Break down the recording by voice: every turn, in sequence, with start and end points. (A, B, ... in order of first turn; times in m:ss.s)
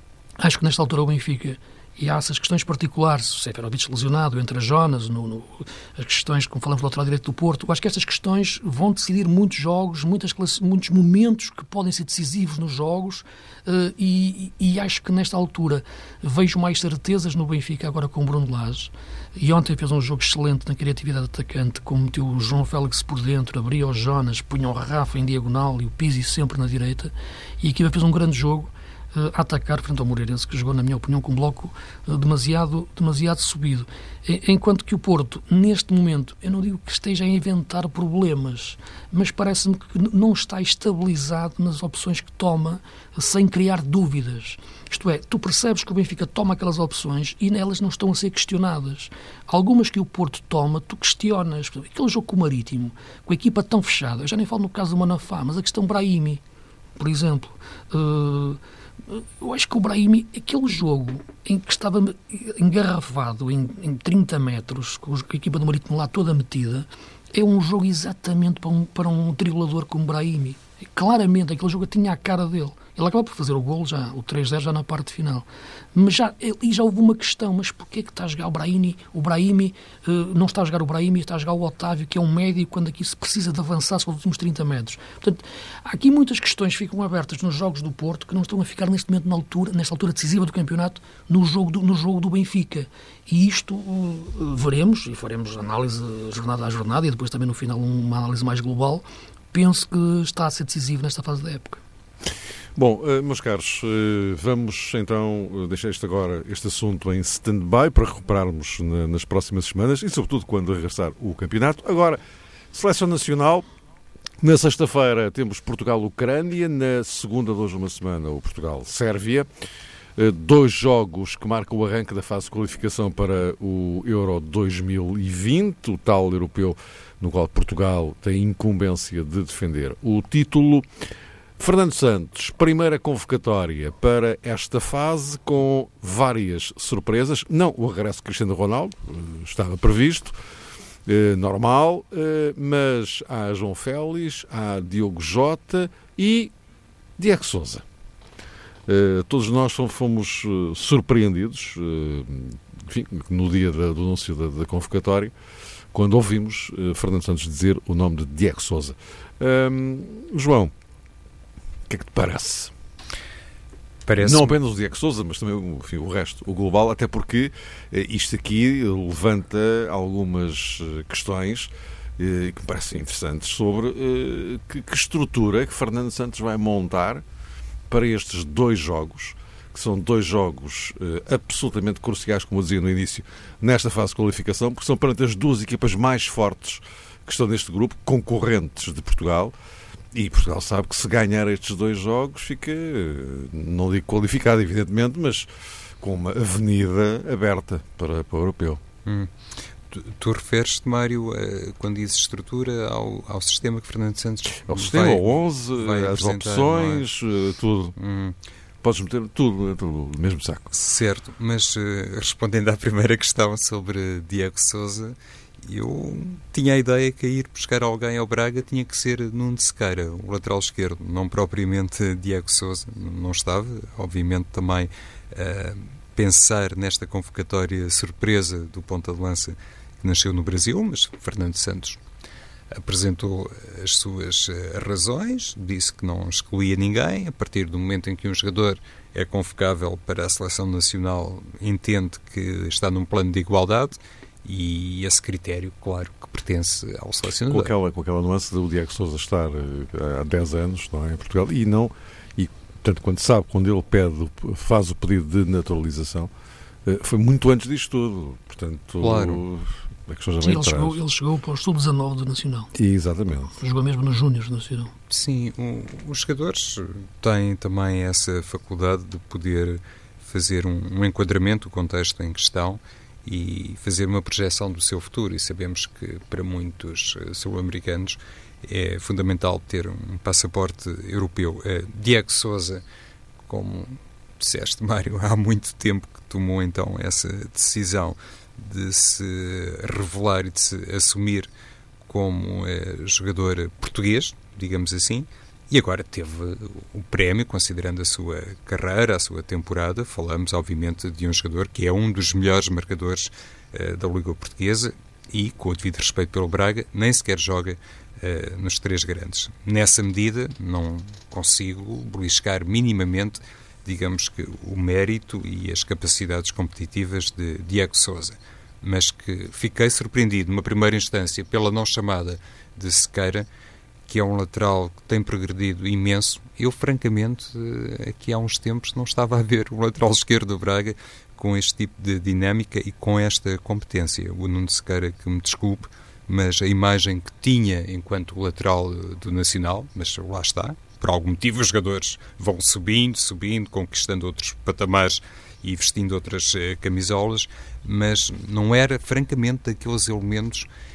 0:00.4-0:56.4 A
0:57.0-1:41.8 A
1:42.7-1:52.2 B
1:52.7-1:53.6 B
1:54.4-1:59.5 B
2:00.2-2:10.9 B
2:11.6-2:20.3 B
2:21.0-2:26.5 B
2:27.2-2:27.8 B
2:28.9-2:35.3 B
2:35.9-2:40.7 B
2:41.9-2:42.7 B
2:44.1-2:44.6 C
2:44.2-2:57.2 B
2:57.9-3:09.5 B
3:10.1-3:15.5 B
3:16.0-3:18.8 B
3:19.0-3:19.3 C
3:19.9-3:27.0 C
3:24.6-3:27.9 B
3:28.0-3:28.4 C
3:28.8-3:30.7 B
3:30.7-3:52.0 C
3:52.7-4:07.7 C
4:07.5-4:16.3 B
4:16.8-4:21.0 B
4:19.0-4:19.4 C
4:20.4-4:22.7 A
4:22.7-4:23.5 B
4:23.6-4:24.9 A
4:25.1-4:42.8 C
4:43.5-4:51.5 C
4:52.1-5:23.4 C
5:24.1-5:50.7 C